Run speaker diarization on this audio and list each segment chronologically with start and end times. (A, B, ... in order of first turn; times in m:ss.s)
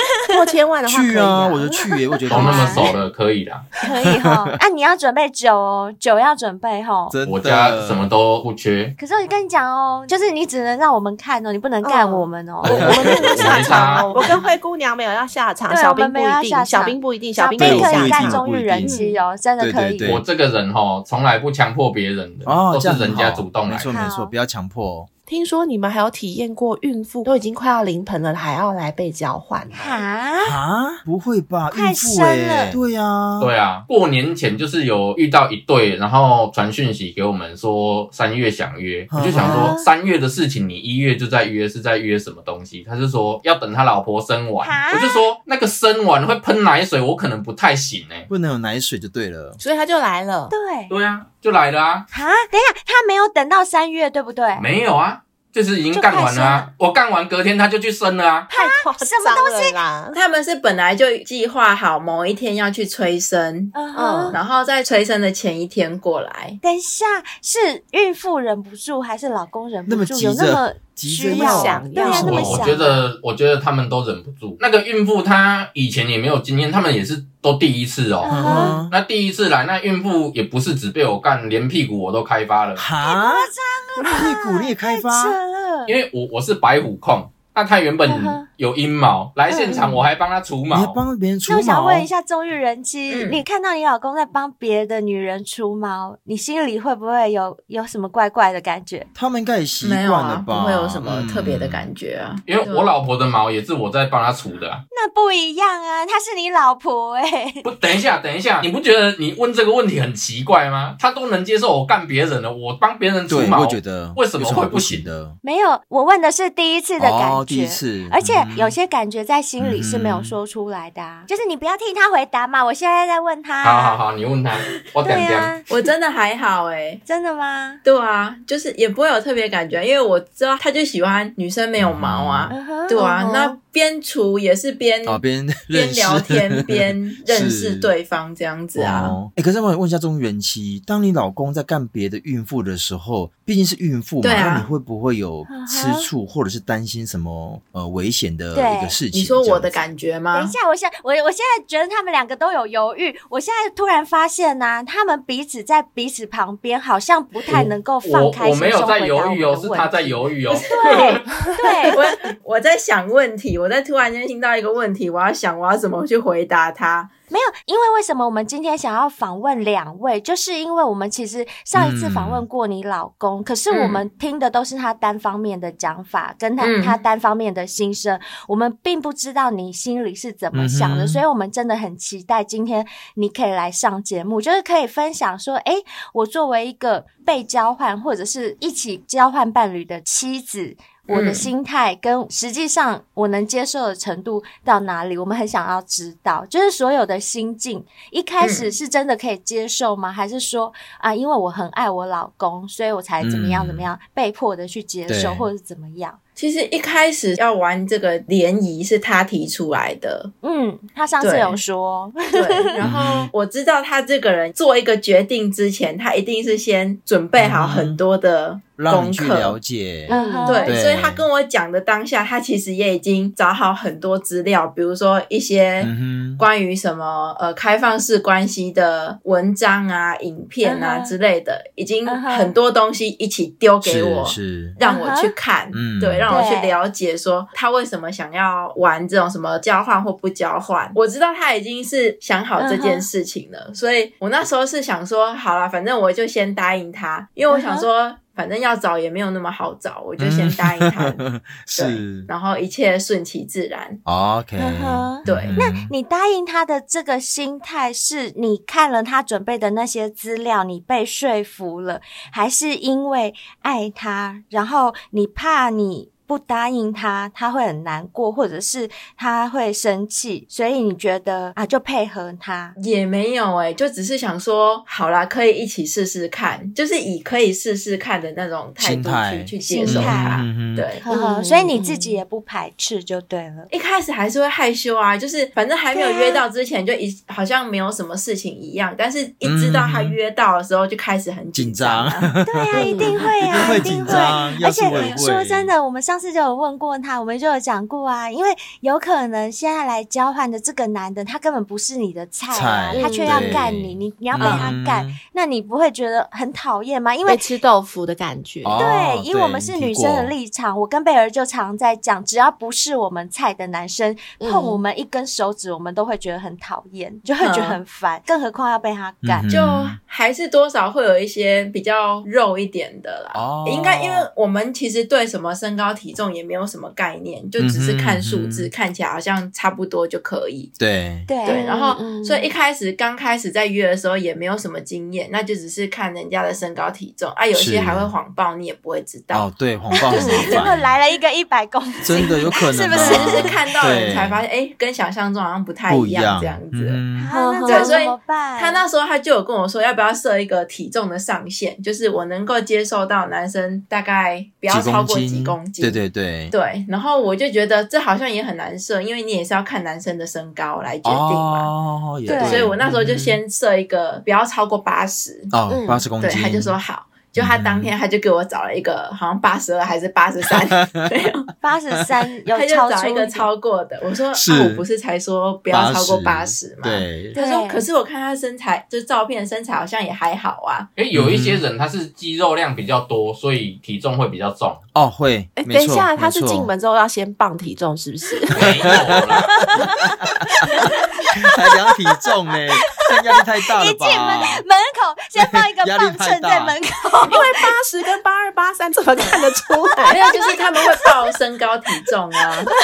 0:00.3-0:01.8 A
0:00.9-0:03.0 B
0:02.3-0:02.9 C
0:02.3-0:03.7 D
0:03.8-0:07.2 C
0:04.0-0:04.5 B
0:07.1-0:08.1 B
0:07.2-0:09.0 D
0:09.0-0:14.3 C
0:11.8-0:19.2 A
0:12.6-0:14.1 D
0:12.6-0:13.6 B
0:15.7-0:20.1 C
0:17.6-0:19.0 B
0:19.6-0:20.2 B
0:20.0-0:23.9 D
0:22.4-0:25.1 B
0:23.9-0:24.3 C
0:25.3-0:30.0 A
0:29.7-0:30.6 C
0:30.4-0:33.5 B
0:31.7-0:32.8 C
0:33.4-0:48.3 D
0:39.1-0:39.7 B
0:39.3-0:39.9 C
0:44.6-0:45.2 C
0:48.3-0:49.6 B
0:49.6-0:50.5 A
0:50.5-0:50.9 C
0:50.9-0:52.1 D
0:52.1-0:54.6 C
0:54.6-0:58.5 D
0:55.9-0:56.7 C
0:58.5-1:00.2 A
0:58.5-0:59.8 C
1:00.1-1:06.6 E
1:03.7-1:04.4 C
1:03.9-1:04.4 A
1:06.6-1:13.1 C
1:09.9-1:12.8 B
1:11.2-1:12.6 A
1:12.2-1:22.8 D
1:18.2-1:18.8 C
1:18.3-1:18.9 B
1:22.8-1:25.4 B
1:23.0-1:26.0 C
1:25.9-1:31.0 D
1:28.0-1:28.4 C
1:29.5-1:29.9 C
1:30.7-1:32.1 B
1:31.5-1:39.1 C
1:33.1-1:33.4 E
1:39.1-1:41.9 B
1:39.8-1:42.9 E
1:42.5-1:44.8 D
1:44.9-1:47.7 C
1:47.6-1:55.1 D
1:53.3-1:55.4 B
1:55.4-2:04.0 C
1:57.0-1:58.8 B
1:59.6-2:00.4 B
2:03.6-2:05.5 D
2:05.0-2:05.7 C
2:05.7-2:07.0 E
2:07.0-2:07.8 C
2:07.8-2:19.2 E
2:11.8-2:12.5 B
2:12.5-2:13.5 C
2:15.0-2:17.9 B
2:18.7-2:29.8 B
2:24.2-2:24.7 E
2:25.5-2:26.1 C
2:28.5-2:29.0 C
2:29.1-2:30.5 E
2:30.3-2:42.0 C
2:37.5-2:41.5 D
2:40.5-2:41.0 E
2:41.9-2:47.1 E
2:47.3-3:26.2 C
2:51.7-2:52.4 B
2:53.7-2:54.0 E
2:56.6-2:57.0 E
3:00.5-3:01.2 B
3:11.1-3:11.5 E
3:18.4-3:18.7 E
3:23.2-3:23.9 B
3:25.1-3:25.5 B
3:26.4-3:30.3 E
3:30.4-3:32.8 C
3:31.2-3:31.6 E
3:32.3-3:39.6 E
3:32.8-3:33.3 B
3:37.4-3:38.0 B
3:38.8-3:41.2 B
3:40.1-3:40.8 C
3:40.1-3:40.7 A
3:40.4-4:11.2 E
3:45.8-3:46.4 B
3:50.6-3:51.1 C
3:52.0-3:52.5 C
3:53.8-3:54.8 B
3:54.8-3:55.3 C
3:55.7-3:56.3 B
3:56.3-3:56.8 C
4:02.6-4:03.1 C
4:07.5-4:07.9 C
4:10.2-4:12.3 B
4:11.7-4:14.0 E
4:14.0-4:15.9 B
4:14.6-4:32.7 C
4:15.2-4:15.6 E
4:32.8-4:41.0 E
4:38.8-4:40.9 B
4:39.6-4:40.4 C
4:41.0-4:43.7 C
4:41.1-4:42.2 A
4:43.7-4:52.3 E
4:45.9-4:46.4 C
4:49.4-4:50.2 B
4:51.5-4:55.7 B
4:52.4-5:07.4 C
4:52.7-4:53.3 A
4:53.6-4:55.2 E
5:02.5-5:05.2 B
5:03.0-5:03.6 A
5:04.4-5:04.6 E
5:07.2-5:08.8 A
5:08.6-5:10.3 B
5:08.8-5:19.5 C
5:14.4-5:14.8 A
5:17.4-5:17.8 E
5:19.2-5:20.0 B
5:19.5-5:30.7 E
5:23.3-5:24.3 B
5:27.6-5:28.7 B
5:30.8-5:31.3 B
5:31.3-5:32.0 C
5:31.4-5:39.5 E
5:31.5-5:32.4 A
5:37.5-5:38.1 B
5:39.3-5:40.9 B
5:39.9-5:43.6 C
5:40.1-5:40.6 A
5:40.2-5:40.6 E
5:42.0-5:44.4 B
5:42.9-5:47.0 E
5:45.9-5:47.3 B
5:47.2-5:48.8 C
5:47.3-5:48.0 A
5:47.7-6:01.7 E
5:54.7-5:56.5 B
6:01.0-6:03.4 B
6:02.3-6:02.6 C
6:02.3-6:05.5 E
6:05.5-6:06.8 B
6:05.7-6:06.1 A
6:06.2-6:11.5 E
6:07.4-6:07.9 B
6:11.6-6:13.5 C
6:12.5-6:20.9 E
6:14.3-6:14.9 B
6:15.7-6:17.4 B
6:17.3-6:17.8 C
6:21.0-6:24.8 D
6:21.1-6:21.6 B
6:24.9-6:26.7 B
6:25.6-6:29.0 A
6:28.5-6:29.7 D
6:28.6-6:29.4 B
6:30.7-6:31.1 C
6:31.4-6:34.6 B
6:33.7-6:37.6 C
6:35.4-6:36.8 B
6:37.2-6:40.6 A
6:40.0-6:40.9 C
6:40.1-6:42.7 E